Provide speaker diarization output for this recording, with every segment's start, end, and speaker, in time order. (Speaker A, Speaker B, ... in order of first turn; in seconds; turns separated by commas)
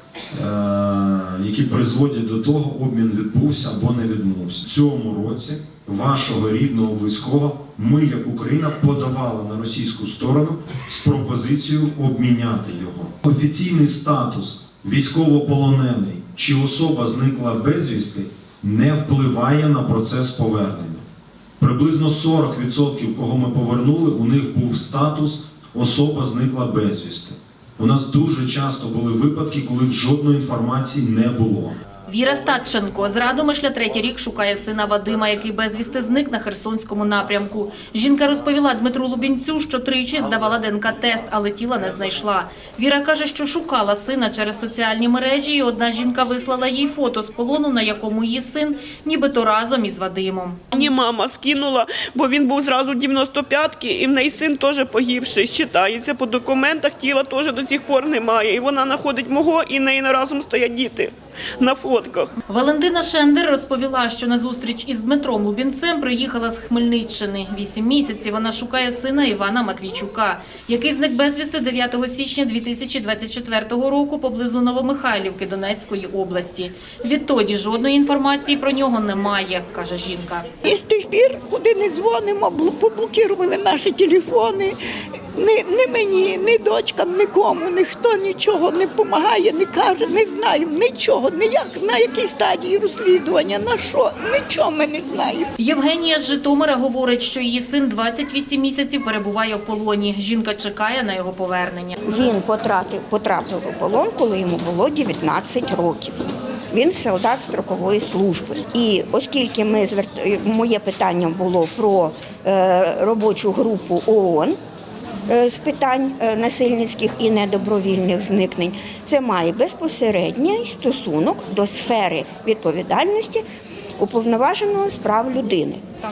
Speaker A: 0.3-21.0, Speaker A: 21.6-31.9, Speaker B: 32.1-50.9, Speaker C: 50.7-62.3, Speaker B: 62.5-80.5, Speaker D: 80.6-84.8, Speaker D: 85.4-95.5, Speaker B: 95.6-102.0, Speaker E: 102.0-106.2, Speaker E: 106.7-114.6, Speaker E: 115.3-123.4, Speaker E: 124.0-125.8